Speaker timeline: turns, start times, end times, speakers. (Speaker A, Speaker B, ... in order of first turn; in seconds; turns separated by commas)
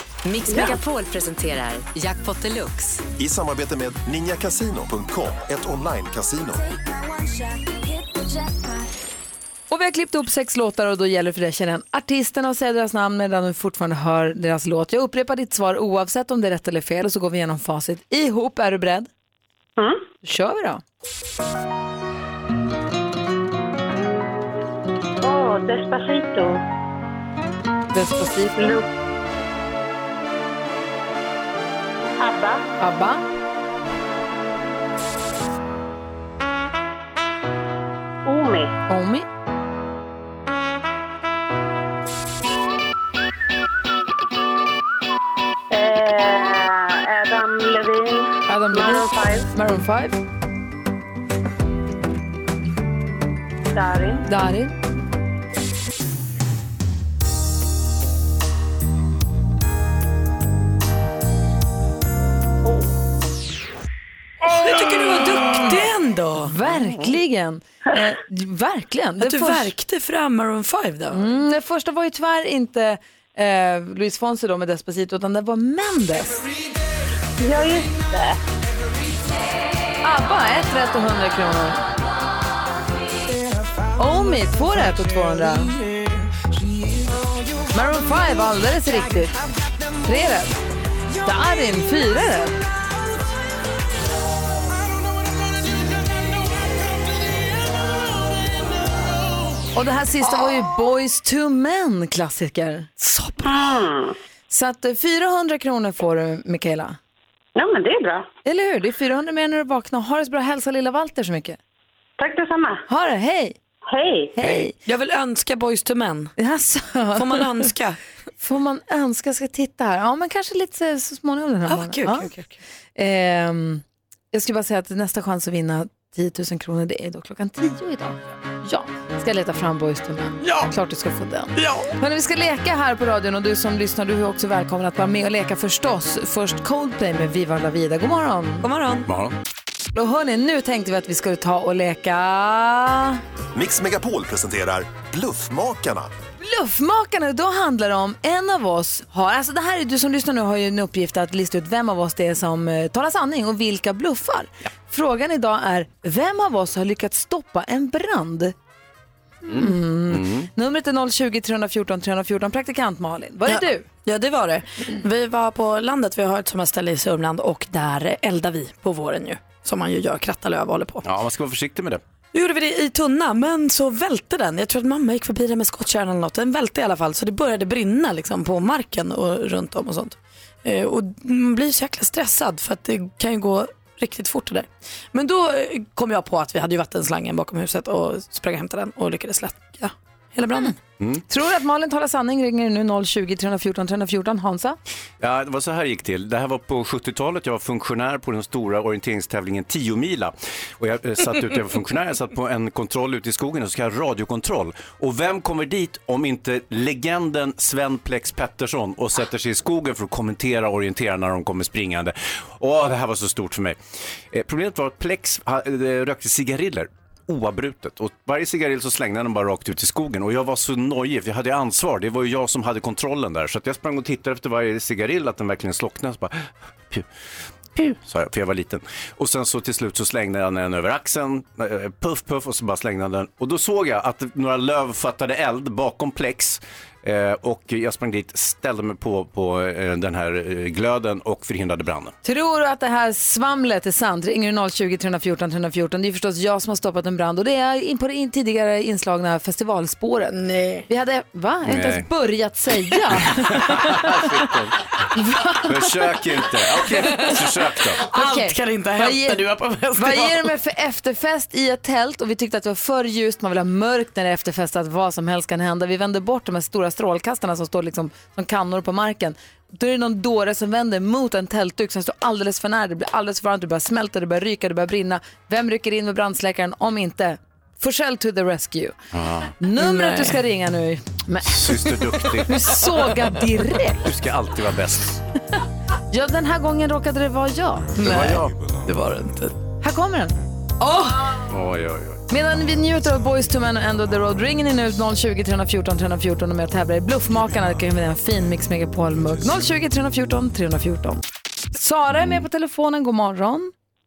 Speaker A: 0.2-3.0, Speaker B: 3.2-6.6, Speaker C: 9.7-19.1, Speaker D: 19.8-20.1, Speaker C: 20.2-20.8, Speaker D: 25.2-26.6, Speaker C: 27.9-28.8, Speaker D: 28.6-28.9, Speaker D: 32.2-32.7, Speaker C: 32.8-33.2, Speaker D: 38.2-38.8, Speaker C: 38.9-39.3, Speaker D: 45.7-49.5, Speaker C: 48.5-50.2, Speaker D: 53.7-54.2, Speaker C: 54.3-54.7, Speaker E: 64.5-66.5, Speaker C: 66.4-69.7, Speaker E: 69.2-71.3, Speaker C: 71.1-76.4, Speaker D: 77.4-78.4, Speaker C: 80.0-81.8, Speaker C: 84.0-85.8, Speaker C: 87.7-89.3, Speaker C: 90.0-90.5, Speaker C: 91.2-92.6, Speaker C: 99.7-103.3, Speaker D: 103.4-104.1, Speaker C: 104.5-107.0, Speaker D: 107.5-108.3, Speaker C: 108.5-111.6, Speaker D: 112.2-112.8, Speaker C: 112.9-113.6, Speaker D: 113.9-114.3, Speaker C: 114.3-114.7, Speaker E: 114.8-116.3, Speaker C: 116.4-117.6, Speaker E: 117.1-118.0, Speaker C: 118.4-122.3, Speaker E: 121.7-122.6, Speaker C: 123.0-138.7, Speaker E: 130.4-130.7, Speaker E: 131.6-131.9, Speaker E: 138.6-139.1, Speaker F: 139.1-139.4, Speaker C: 139.9-143.2, Speaker B: 143.6-146.1, Speaker C: 146.4-158.5, Speaker C: 159.4-163.8, Speaker F: 159.5-160.5, Speaker E: 163.5-171.1, Speaker F: 171.0-172.0, Speaker E: 172.3-190.8, Speaker C: 191.3-194.8, Speaker F: 195.2-213.8, Speaker F: 214.3-227.1, Speaker F: 227.8-242.1, Speaker C: 242.2-254.2, Speaker E: 250.4-250.9, Speaker F: 251.7-252.1, Speaker F: 253.3-254.8, Speaker C: 255.1-255.9, Speaker F: 255.6-258.1, Speaker E: 257.0-257.4, Speaker E: 258.0-260.5, Speaker C: 258.1-259.4, Speaker C: 259.9-278.9, Speaker F: 279.1-279.5, Speaker C: 279.6-281.9, Speaker E: 279.8-280.4, Speaker F: 281.4-282.7, Speaker C: 282.5-284.0, Speaker F: 284.0-285.2, Speaker C: 286.1-288.1, Speaker E: 288.0-289.5, Speaker F: 288.0-288.5, Speaker C: 289.8-291.4, Speaker F: 291.5-292.3, Speaker C: 292.3-301.2, Speaker C: 301.7-303.7